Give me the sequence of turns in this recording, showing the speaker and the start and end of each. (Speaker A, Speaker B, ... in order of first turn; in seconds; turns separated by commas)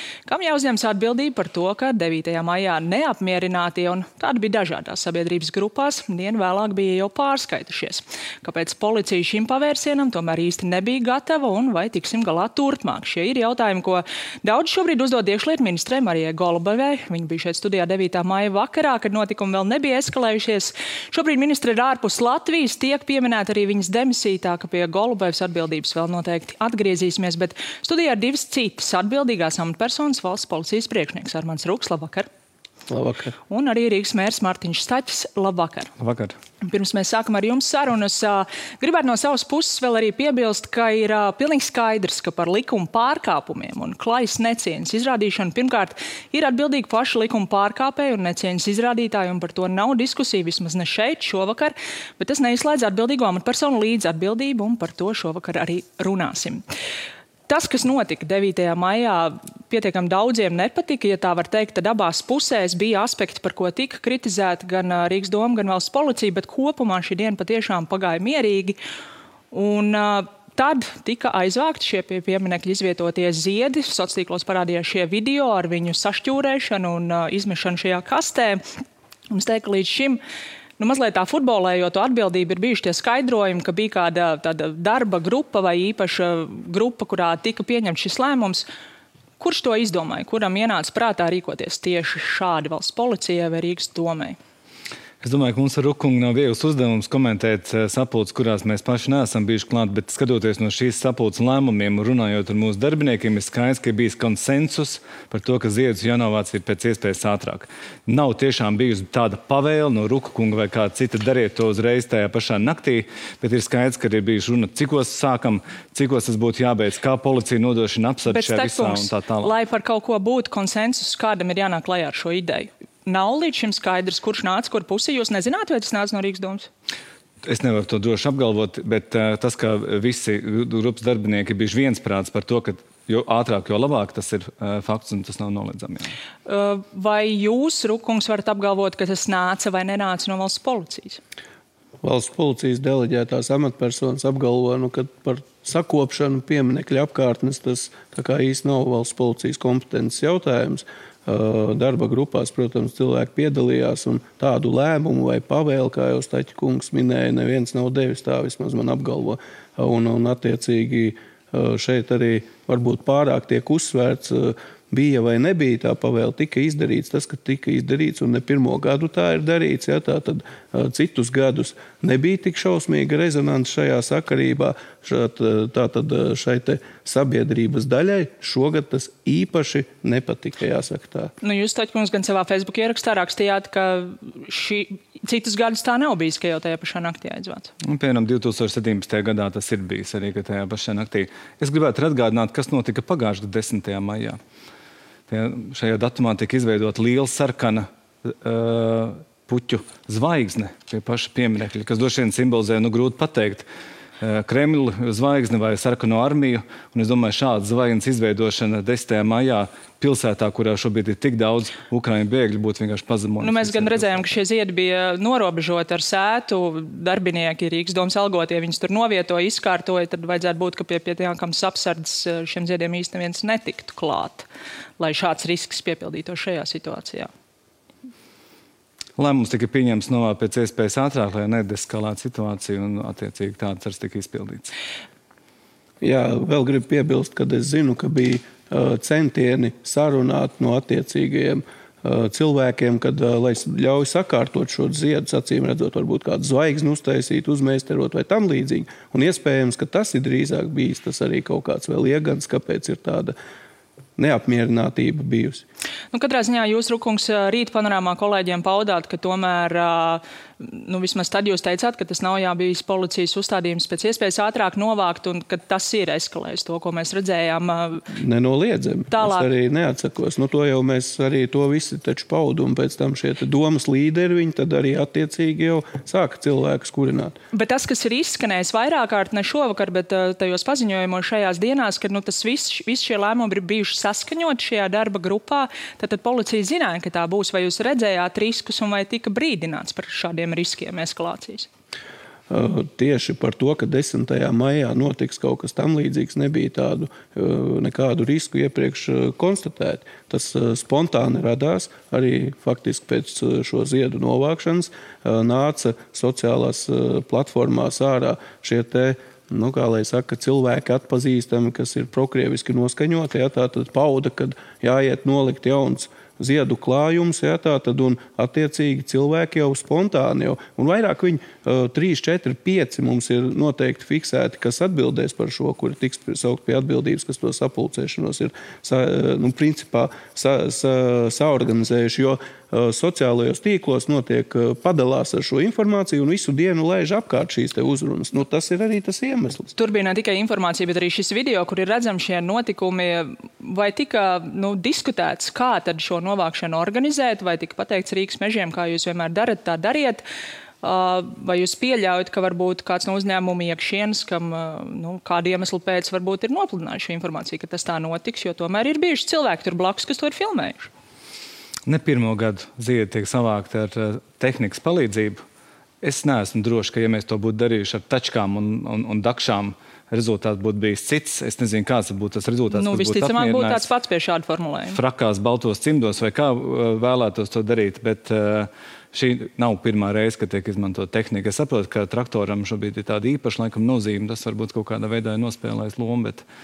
Speaker A: 0.3-32.3, Speaker B: 32.9-33.4, Speaker A: 33.5-35.9, Speaker C: 36.0-36.4, Speaker A: 36.6-56.6, Speaker A: 57.5-68.8, Speaker A: 69.5-78.6, Speaker A: 79.3-80.2, Speaker A: 80.8-88.7, Speaker A: 89.4-94.4, Speaker C: 95.2-119.5, Speaker A: 118.3-126.7, Speaker C: 127.5-136.1, Speaker A: 136.5-141.2, Speaker B: 142.0-181.3, Speaker A: 181.4-187.7, Speaker C: 187.8-194.4, Speaker C: 195.3-203.7, Speaker C: 204.2-214.4, Speaker A: 213.4-224.5, Speaker A: 225.0-227.3, Speaker C: 229.2-234.7, Speaker B: 236.0-253.3, Speaker B: 254.2-255.7, Speaker A: 256.1-268.1, Speaker B: 268.1-277.4, Speaker A: 269.1-269.5, Speaker A: 277.5-291.7, Speaker B: 292.5-339.7, Speaker A: 339.8-350.2, Speaker A: 350.8-360.9, Speaker C: 361.9-365.4, Speaker C: 366.0-373.9, Speaker A: 372.7-375.0, Speaker C: 374.9-386.4